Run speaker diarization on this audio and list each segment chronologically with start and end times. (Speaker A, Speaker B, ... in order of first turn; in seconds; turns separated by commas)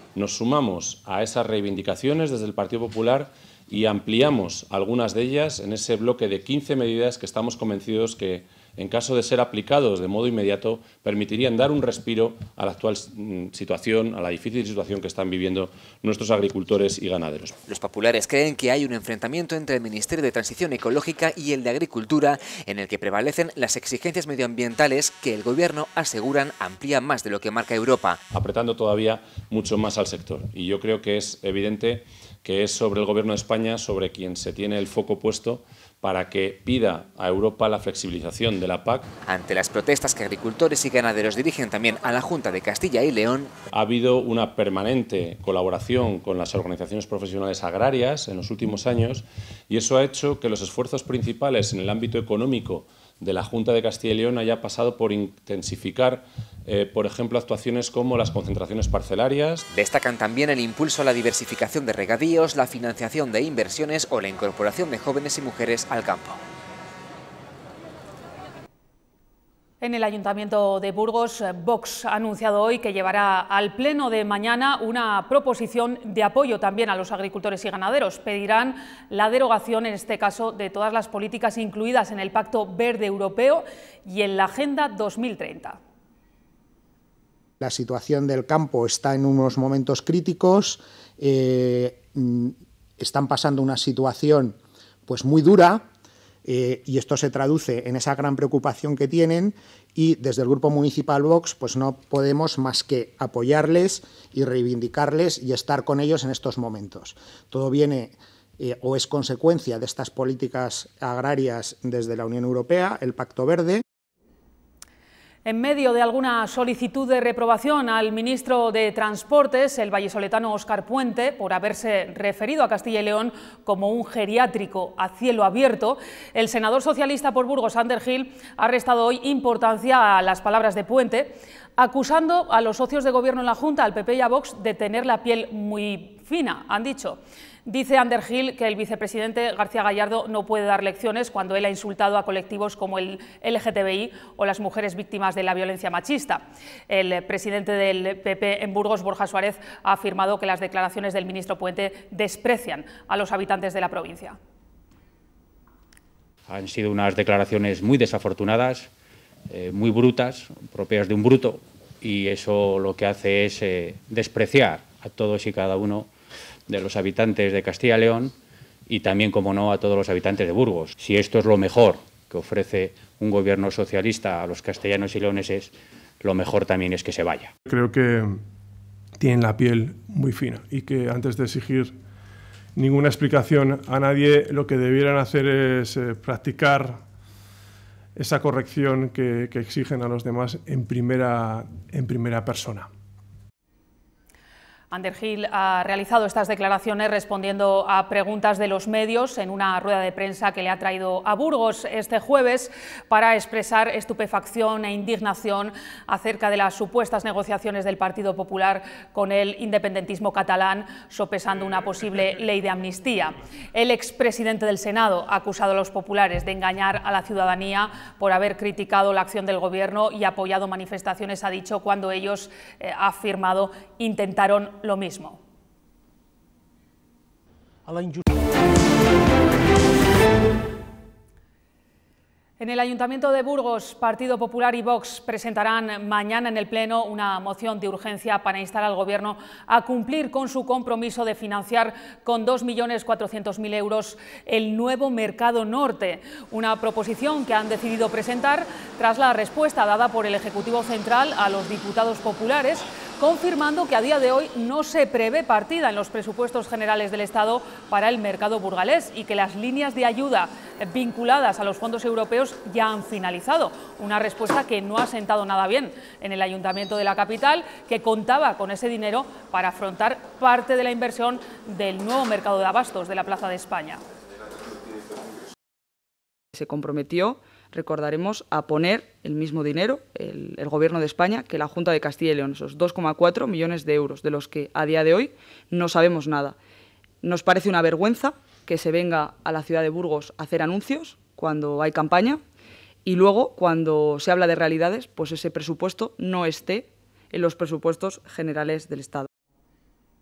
Speaker A: 0.1-17.6, Speaker B: 17.7-28.2, Speaker A: 28.3-39.1, Speaker B: 39.2-43.5, Speaker A: 43.7-59.7, Speaker B: 59.7-66.4, Speaker C: 69.8-85.8, Speaker D: 87.6-95.9, Speaker D: 96.4-113.8, Speaker C: 115.5-154.4, Speaker E: 156.5-158.9, Speaker E: 159.5-166.1, Speaker E: 166.7-168.3, Speaker E: 168.9-177.5, Speaker F: 177.7-178.4, Speaker F: 179.2-181.9, Speaker F: 182.8-187.0, Speaker F: 188.1-192.9, Speaker C: 194.9-225.4, Speaker C: 232.6-274.0, Speaker G: 276.5-286.6, Speaker G: 287.2-292.4, Speaker G: 293.0-299.3